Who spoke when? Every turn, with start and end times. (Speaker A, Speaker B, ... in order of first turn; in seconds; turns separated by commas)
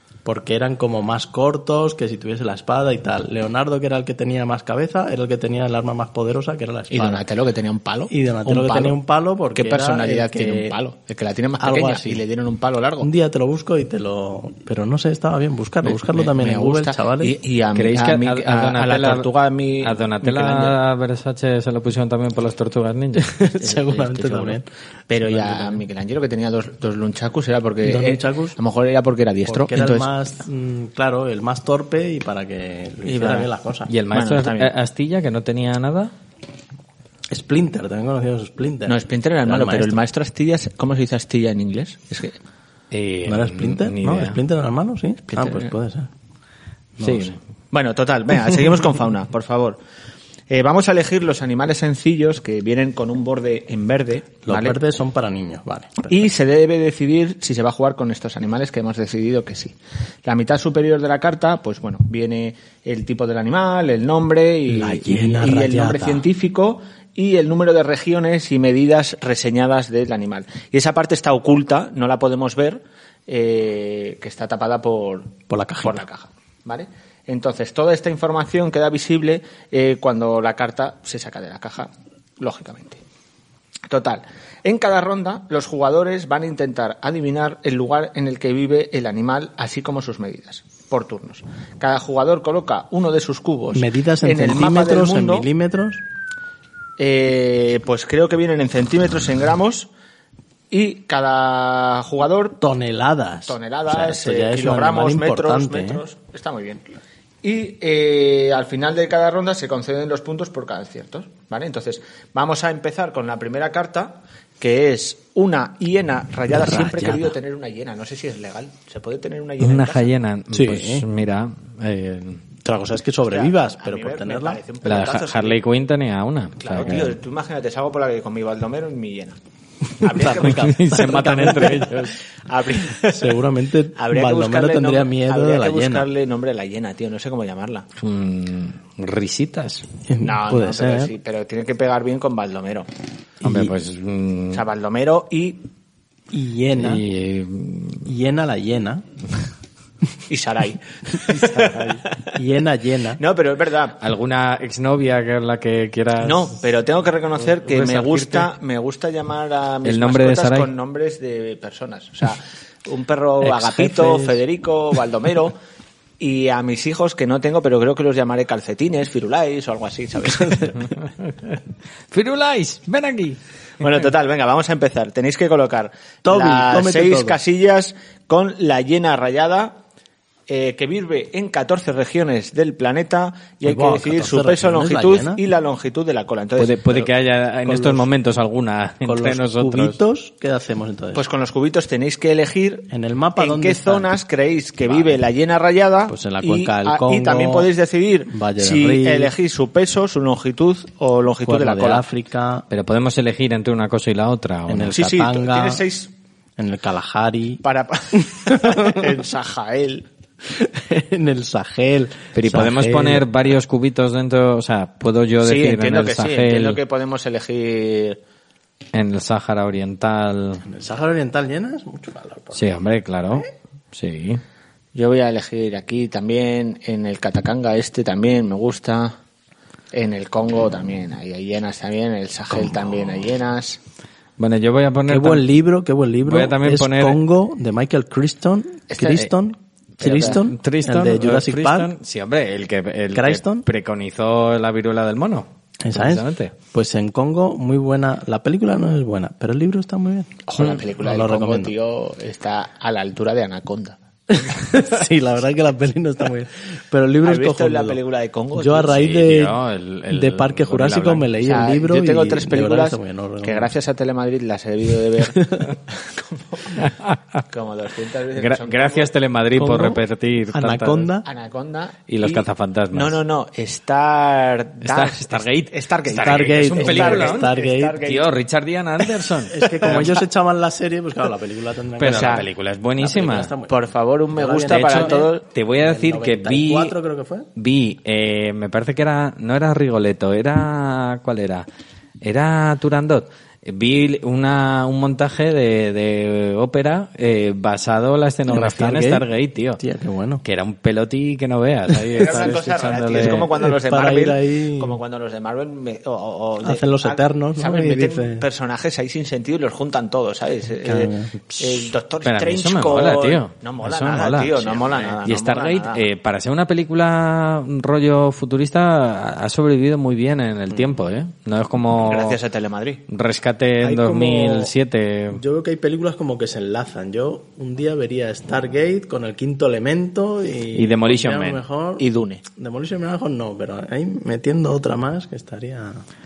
Speaker A: 0.2-7.2, Speaker B: 6.9-9.0, Speaker A: 8.1-10.8, Speaker B: 9.6-13.1, Speaker A: 11.6-12.2, Speaker A: 13.0-17.4, Speaker B: 15.8-20.8, Speaker C: 17.7-19.3, Speaker C: 19.8-23.3, Speaker A: 23.2-25.8, Speaker B: 23.6-30.1, Speaker A: 27.8-28.6, Speaker A: 29.5-33.9, Speaker B: 33.0-33.5, Speaker C: 33.9-36.1, Speaker B: 34.1-34.7, Speaker A: 37.3-40.0, Speaker B: 38.9-42.4, Speaker C: 42.9-44.4, Speaker A: 43.3-46.1, Speaker B: 45.4-45.7, Speaker A: 47.0-47.4, Speaker C: 47.0-47.4, Speaker B: 47.7-49.8, Speaker B: 50.5-54.8, Speaker A: 54.4-56.3, Speaker B: 56.1-83.0, Speaker A: 64.7-66.2, Speaker A: 75.5-76.0, Speaker B: 83.9-95.5, Speaker A: 93.7-96.0, Speaker B: 97.0-99.9, Speaker B: 100.7-102.6, Speaker A: 102.6-106.0, Speaker B: 103.5-106.8, Speaker B: 107.4-120.1, Speaker A: 116.5-117.3, Speaker C: 119.6-122.4, Speaker A: 120.5-121.0, Speaker A: 122.6-124.6, Speaker B: 123.3-125.6, Speaker C: 124.8-127.2, Speaker B: 126.6-129.4, Speaker B: 130.0-133.4, Speaker A: 130.0-131.9, Speaker C: 130.4-132.2, Speaker A: 133.0-136.1, Speaker B: 134.0-137.9, Speaker C: 138.0-139.9, Speaker A: 140.1-141.1, Speaker B: 140.2-142.9, Speaker A: 143.4-143.7, Speaker C: 143.4-144.6, Speaker B: 144.5-145.7, Speaker A: 146.3-147.0, Speaker C: 146.8-148.1, Speaker A: 148.1-149.0, Speaker B: 150.3-152.4, Speaker A: 151.2-153.2, Speaker B: 153.2-154.0, Speaker C: 154.0-156.6, Speaker B: 156.2-165.6, Speaker C: 157.4-158.5, Speaker C: 159.8-160.7, Speaker A: 163.4-164.4, Speaker B: 166.2-170.9, Speaker C: 171.0-171.6, Speaker C: 172.1-173.4, Speaker B: 173.8-179.8, Speaker A: 176.2-177.4, Speaker B: 180.5-187.1, Speaker A: 183.6-185.4, Speaker C: 186.6-190.0, Speaker A: 187.7-188.1, Speaker A: 189.1-191.2, Speaker B: 191.2-192.9, Speaker A: 192.9-194.1, Speaker B: 193.4-202.0, Speaker A: 194.9-195.2, Speaker A: 196.1-197.7, Speaker A: 198.3-199.3, Speaker A: 201.4-202.7, Speaker C: 202.7-205.0, Speaker A: 204.7-205.8, Speaker B: 204.9-206.1, Speaker A: 206.6-207.6, Speaker B: 207.6-210.1, Speaker A: 208.5-209.0, Speaker A: 210.4-213.3, Speaker C: 212.3-216.8, Speaker B: 215.4-218.2, Speaker C: 218.9-220.7, Speaker A: 220.7-222.7, Speaker C: 222.5-224.4, Speaker B: 224.9-229.2, Speaker B: 229.9-233.8, Speaker C: 234.4-235.5, Speaker A: 235.1-241.9, Speaker C: 236.3-237.2, Speaker B: 238.9-239.3, Speaker C: 240.0-246.5, Speaker B: 240.0-240.4, Speaker A: 243.1-243.7, Speaker A: 245.8-251.7, Speaker B: 250.5-254.0, Speaker A: 254.3-258.0, Speaker B: 257.2-259.1, Speaker A: 258.5-259.6, Speaker C: 258.9-261.3, Speaker A: 260.1-263.7, Speaker B: 261.4-266.9, Speaker A: 265.2-265.7, Speaker C: 266.8-267.4, Speaker B: 267.5-269.1, Speaker C: 268.3-271.1, Speaker A: 269.6-270.0, Speaker A: 270.5-271.3, Speaker B: 271.2-278.3, Speaker C: 272.1-273.2, Speaker C: 274.8-280.1, Speaker A: 276.1-278.0, Speaker A: 279.5-283.8, Speaker B: 279.8-280.2, Speaker C: 282.0-283.5, Speaker B: 282.0-282.4, Speaker B: 283.7-285.4, Speaker A: 284.3-287.5, Speaker C: 284.7-287.0, Speaker C: 287.6-291.6, Speaker C: 292.2-299.8, Speaker A: 298.5-299.3, Speaker A: 299.8-300.4, Speaker C: 300.4-303.5, Speaker A: 302.2-302.6, Speaker B: 302.2-316.1, Speaker A: 303.1-305.0, Speaker A: 306.6-308.4, Speaker A: 310.8-311.3, Speaker C: 311.6-322.4, Speaker B: 322.0-323.0, Speaker C: 323.1-325.4, Speaker A: 323.8-324.7, Speaker A: 325.3-332.1, Speaker C: 330.7-331.6, Speaker B: 332.0-332.4, Speaker A: 332.6-336.0